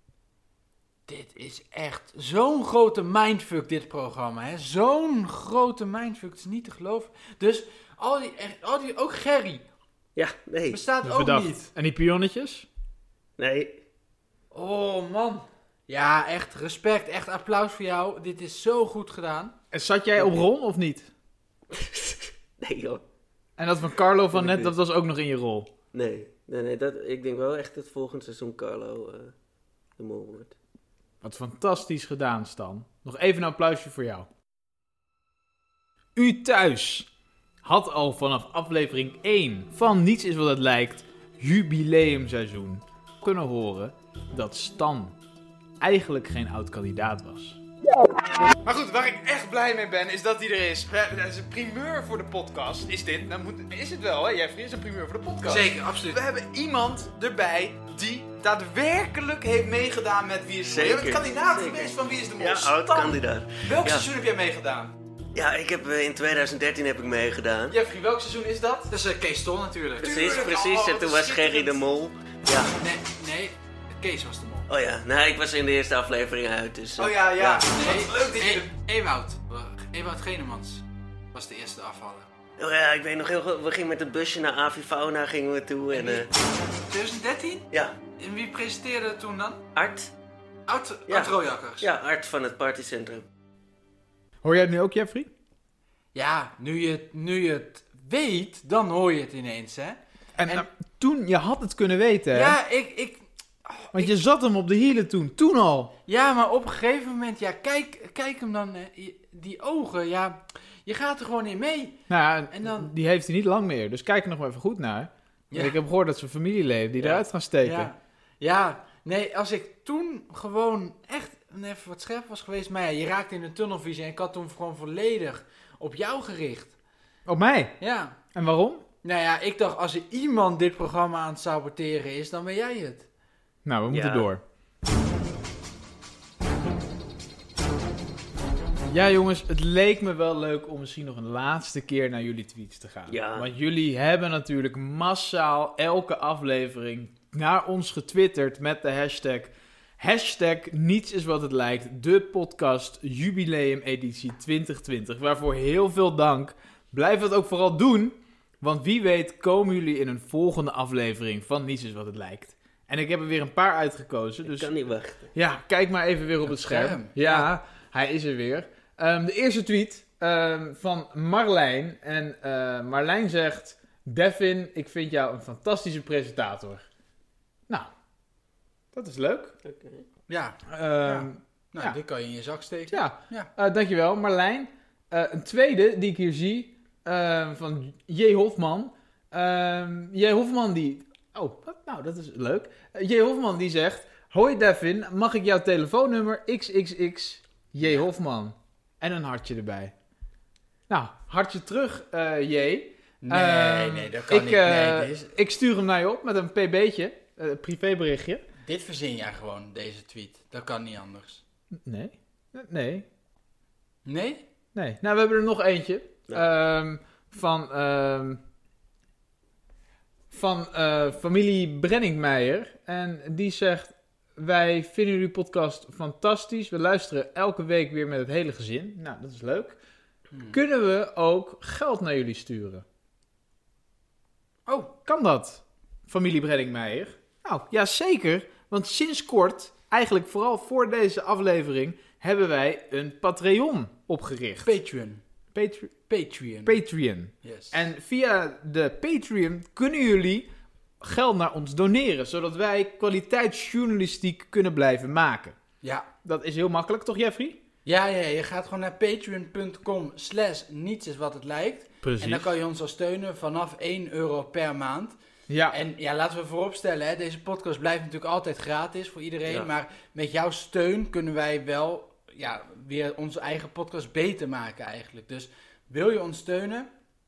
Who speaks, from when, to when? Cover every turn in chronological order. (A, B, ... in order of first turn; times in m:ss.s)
0:01.1-0:09.7 A
0:10.2-0:10.8 B
0:10.7-0:11.7 A
0:11.0-0:12.7 C
0:13.4-0:13.8 B
0:14.5-0:19.5 A
0:19.7-0:21.1 C
0:20.2-0:20.5 B
0:21.7-0:23.0 B
0:23.6-0:25.7 C
0:24.3-0:24.7 B
0:25.9-0:29.3 B
0:30.0-0:30.6 B
0:31.2-0:34.3 C
0:36.2-0:37.1 C
0:37.6-0:45.2 C
0:45.8-0:47.6 C
0:48.6-1:04.9 C
0:55.4-0:56.2 A
1:00.7-1:04.1 B
1:05.3-1:07.8 B
1:07.7-1:08.9 C
1:08.9-1:10.2 A
1:10.0-1:12.7 B
1:10.0-1:11.8 C
1:12.8-1:14.7 A
1:14.7-1:17.6 B
1:17.0-1:18.7 C
1:17.5-1:22.3 A
1:22.6-1:26.3 B
1:25.9-1:26.3 A
1:26.9-1:27.7 A
1:28.2-1:29.6 A
1:29.8-1:30.1 B
1:30.7-1:31.9 A
1:31.1-1:33.3 B
1:34.4-1:35.3 C
1:36.1-1:40.7 A
1:40.4-1:42.6 C
1:42.3-1:44.2 A
1:43.9-1:45.9 C
1:46.1-1:52.0 A
1:52.1-1:57.9 C
1:52.5-1:52.9 A
1:55.5-1:55.8 A
1:57.0-2:06.8 A
2:07.3-2:07.8 C
2:07.8-2:08.2 A
2:08.3-2:08.8 C
2:09.0-2:13.1 A
2:13.6-2:14.4 C
2:13.9-2:14.3 B
2:18.9-2:44.7 C
2:23.1-2:23.5 B
2:44.4-2:45.3 B
2:45.3-2:56.8 C
2:46.5-2:47.5 A
2:58.9-2:59.6 C
2:59.6-3:00.0 B
3:00.3-3:03.5 A
3:00.7-3:02.0 C
3:02.9-3:19.9 C
3:20.9-3:28.4 C
3:23.2-3:25.3 A
3:28.6-3:31.4 A
3:31.7-3:33.1 C
3:34.0-3:34.4 A
3:34.8-3:38.4 C
3:40.3-3:49.8 C
3:50.3-3:50.6 A
3:50.5-3:52.8 C
3:54.7-3:54.9 A
3:55.1-4:04.7 C
4:04.6-4:05.2 A
4:05.5-4:05.9 C
4:06.1-4:06.8 A
4:06.6-4:10.5 C
4:07.4-4:07.9 A
4:11.0-4:15.6 C
4:15.8-4:16.1 A
4:16.2-4:17.6 C
4:17.8-4:25.2 A
4:22.0-4:22.5 C
4:25.5-4:25.8 C
4:25.7-4:36.9 A
4:29.5-4:29.7 B